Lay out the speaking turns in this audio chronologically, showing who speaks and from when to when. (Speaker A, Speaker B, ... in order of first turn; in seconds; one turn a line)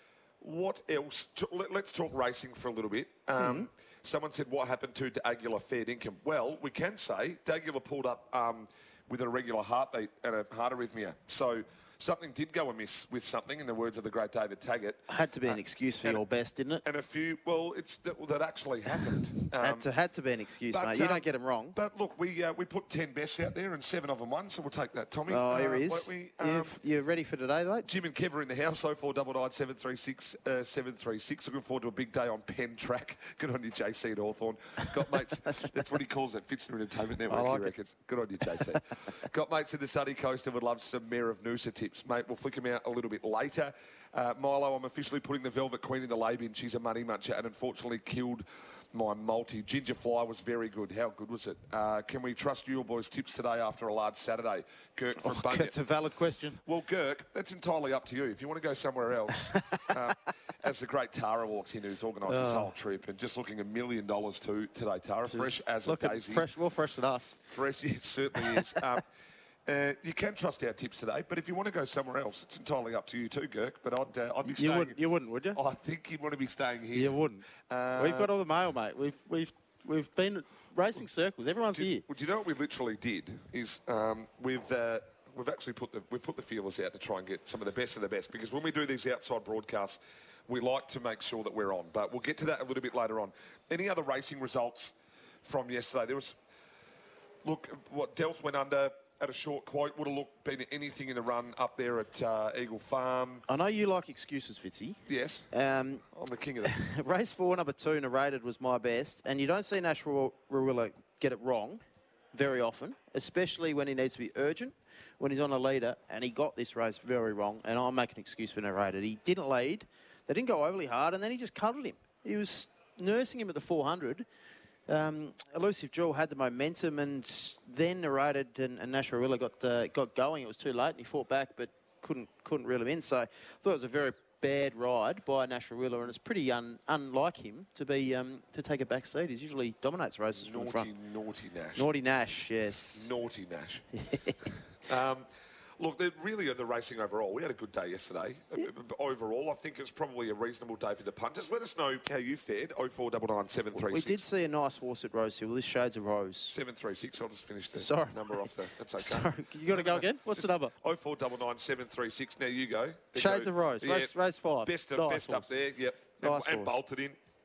Speaker A: 0.4-16.2
Speaker B: 3.4-3.7
Speaker B: 15.1-16.8
Speaker A: 16.9-19.9
Speaker B: 19.6-21.8
Speaker A: 20.7-26.8
Speaker B: 25.3-27.9
Speaker A: 27.9-55.7
Speaker B: 37.3-37.7
Speaker B: 55.2-56.6
Speaker A: 56.6-66.5
Speaker B: 59.5-59.9
Speaker B: 62.3-62.7
Speaker B: 65.3-67.4
Speaker A: 67.5-69.0
Speaker A: 69.7-75.0
Speaker B: 74.6-75.6
Speaker A: 75.5-78.3
Speaker B: 76.9-82.0
Speaker A: 81.8-96.4
Speaker A: 97.4-103.4
Speaker B: 103.5-105.0
Speaker A: 105.1-105.5
Speaker B: 105.5-106.0
Speaker A: 106.1-106.8
Speaker B: 106.6-111.8
Speaker B: 112.3-124.2
Speaker B: 124.9-140.9
Speaker A: 140.4-141.9
Speaker B: 141.8-143.1
Speaker A: 143.0-143.9
Speaker B: 143.9-144.5
Speaker A: 144.8-145.3
Speaker A: 145.8-154.2
Speaker B: 153.7-156.6
Speaker A: 156.5-167.2
Speaker B: 157.8-160.7
Speaker B: 163.2-165.5
Speaker B: 166.2-166.8